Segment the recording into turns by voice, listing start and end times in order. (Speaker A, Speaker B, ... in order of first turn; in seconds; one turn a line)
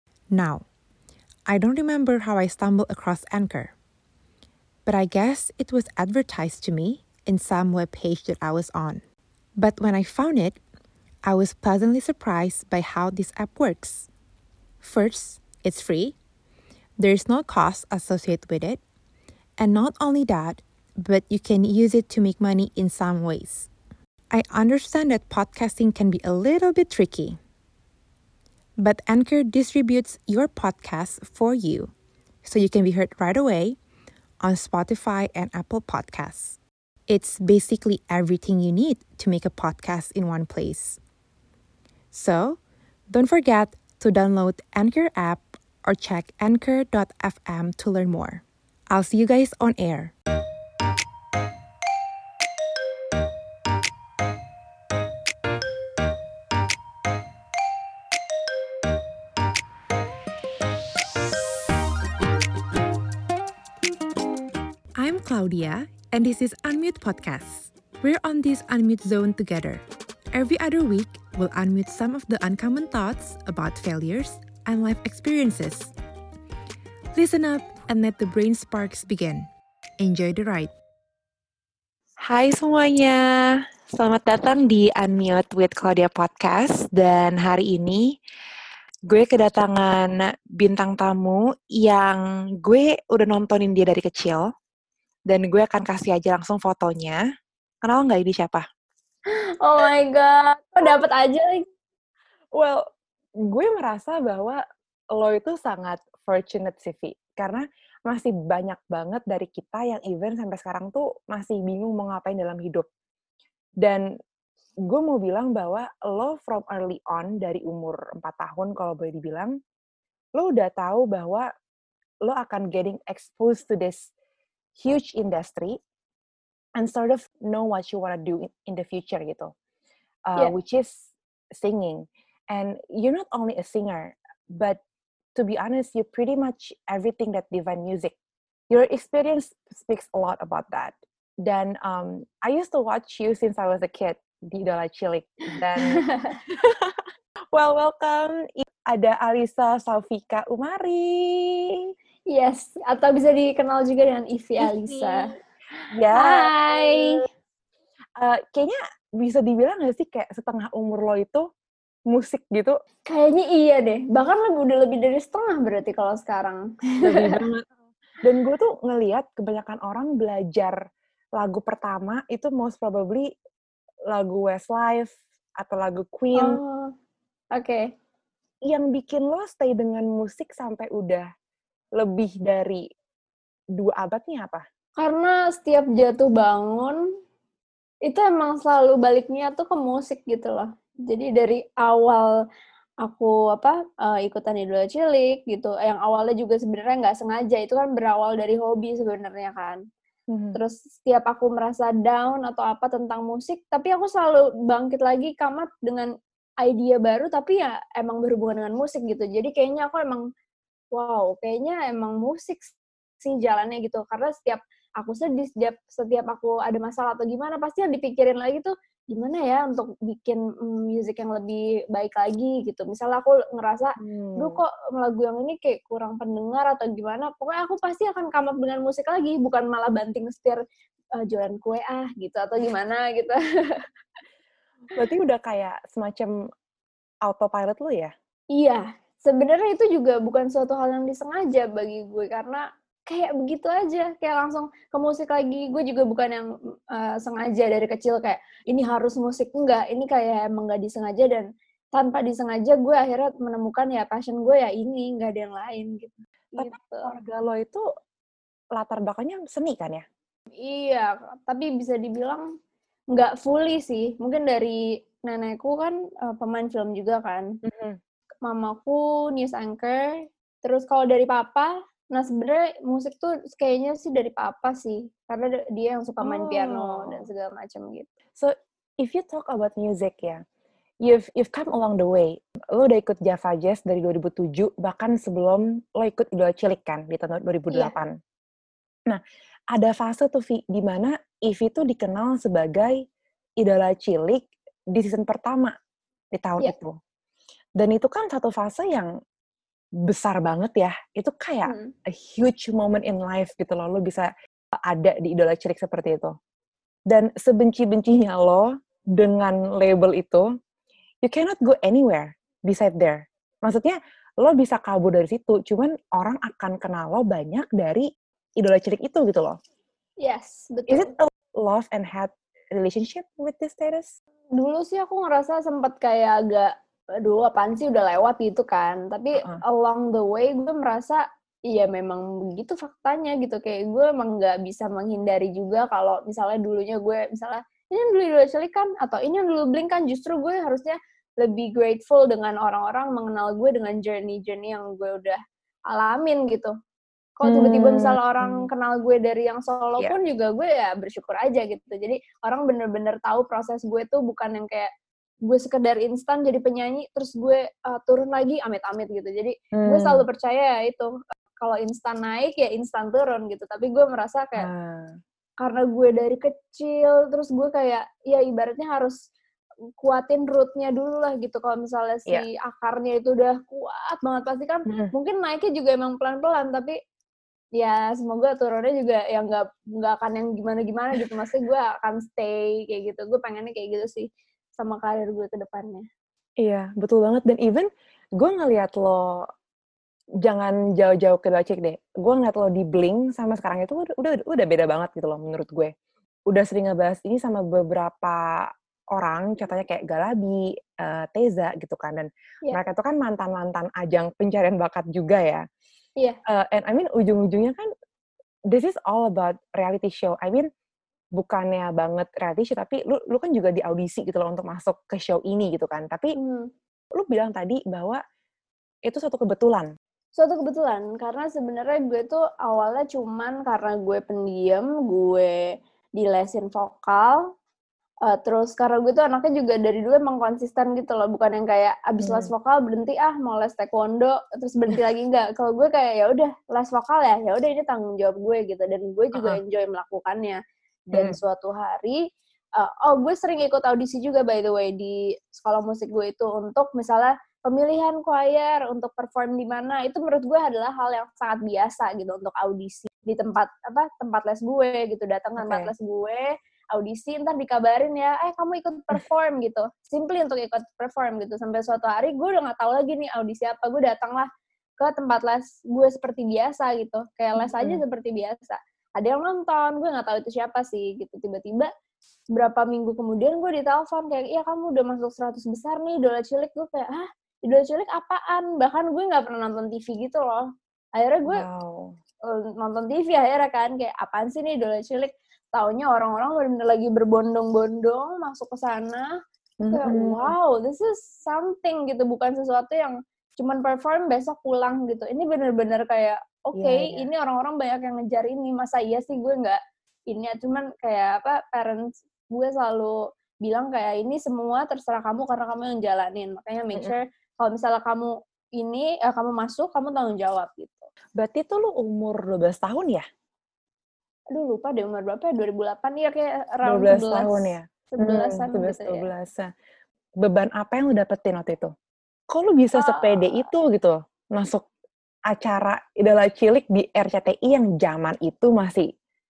Speaker A: 0.3-0.6
Speaker A: 1.5-3.7
Speaker A: 4.9-9.0
Speaker A: 9.6-10.6
Speaker A: 11.2-14.1
Speaker A: 14.8-16.1
Speaker A: 17.0-18.8
Speaker A: 19.6-23.7
Speaker A: 24.3-27.4
Speaker A: 28.8-31.9
Speaker A: 32.4-33.8
Speaker A: 34.4-41.0
Speaker A: 42.1-42.6
Speaker A: 43.1-50.1
Speaker A: 65.0-69.8
Speaker A: 70.3-75.9
Speaker A: 77.1-79.5
Speaker A: 80.0-80.7
Speaker A: 82.4-83.2
Speaker A: 84.0-88.0
Speaker A: 89.1-94.4
Speaker A: 95.3-97.1
Speaker A: 97.8-98.6
Speaker B: 98.0-98.5
Speaker C: 99.6-101.6
Speaker B: 102.6-102.8
Speaker B: 103.5-104.6
Speaker B: 105.1-112.9
Speaker B: 114.9-119.5
Speaker B: 120.4-121.5
Speaker B: 122.3-124.1
Speaker B: 124.8-125.8
Speaker B: 126.8-129.5
Speaker B: 130.3-134.8
Speaker B: 135.4-138.2
Speaker B: 138.7-147.0
Speaker C: 145.8-146.4
Speaker B: 147.5-151.9
Speaker C: 152.3-155.3
Speaker B: 154.6-155.3
Speaker B: 155.9-157.2
Speaker C: 156.1-157.2
Speaker B: 158.2-161.4
Speaker B: 162.1-162.8
Speaker C: 163.1-167.4
Speaker B: 167.1-167.7
Speaker B: 168.2-170.8
Speaker B: 171.4-173.3
Speaker B: 174.1-176.6
Speaker C: 176.4-176.9
Speaker C: 177.6-177.9
Speaker B: 178.7-181.3
Speaker B: 182.0-182.8
Speaker B: 183.8-184.6
Speaker C: 185.0-187.0
Speaker C: 188.1-192.3
Speaker C: 193.0-199.8
Speaker B: 200.3-200.6
Speaker C: 200.5-206.1
Speaker C: 206.6-210.2
Speaker C: 210.9-230.6
Speaker B: 224.0-224.6
Speaker C: 231.2-233.4
Speaker B: 234.9-236.3
Speaker B: 237.3-238.1
Speaker C: 238.5-257.1
Speaker B: 256.6-257.8
Speaker B: 258.8-260.0
Speaker C: 260.6-262.5
Speaker C: 263.1-267.5
Speaker B: 267.6-268.0
Speaker C: 268.5-278.1
Speaker B: 276.2-277.3
Speaker B: 278.4-280.4
Speaker B: 281.0-288.2
Speaker B: 289.7-293.0
Speaker B: 293.6-295.7
Speaker B: 296.3-296.9
Speaker B: 297.8-299.1
Speaker B: 300.1-304.3
Speaker C: 301.7-301.9
Speaker B: 304.9-306.3
Speaker B: 307.1-310.5
Speaker B: 311.2-318.1
Speaker B: 318.6-319.6
Speaker C: 320.2-321.1
Speaker B: 320.9-324.1
Speaker C: 324.6-345.4
Speaker C: 345.9-346.7
Speaker C: 347.4-354.9
Speaker B: 347.4-348.6
Speaker C: 355.5-364.7
Speaker B: 359.7-360.2
Speaker B: 364.6-365.1
Speaker C: 365.6-369.2
Speaker C: 370.0-377.0
Speaker B: 374.9-375.1
Speaker C: 377.8-384.3
Speaker C: 384.8-386.1
Speaker B: 386.6-389.5
Speaker B: 390.4-395.9
Speaker B: 396.5-398.4
Speaker B: 399.1-405.6
Speaker B: 406.5-407.9
Speaker B: 408.7-410.7
Speaker B: 411.4-416.3
Speaker C: 416.4-416.7
Speaker B: 417.2-418.2
Speaker B: 419.1-419.9
Speaker C: 420.4-425.6
Speaker C: 426.2-427.4
Speaker C: 428.3-440.6
Speaker B: 432.2-432.5
Speaker C: 441.1-442.2
Speaker C: 442.8-464.5
Speaker B: 455.6-455.9
Speaker C: 465.0-471.9
Speaker B: 467.6-468.0
Speaker C: 472.5-480.6
Speaker C: 481.2-481.6
Speaker B: 481.5-482.1
Speaker C: 482.5-489.3
Speaker B: 489.8-490.5
Speaker C: 489.9-499.8
Speaker B: 496.8-497.3
Speaker C: 500.3-511.1
Speaker B: 511.4-513.2
Speaker C: 514.5-519.3
Speaker B: 516.9-519.7
Speaker B: 520.4-521.9
Speaker B: 522.5-524.9
Speaker C: 522.9-523.7
Speaker B: 525.5-529.1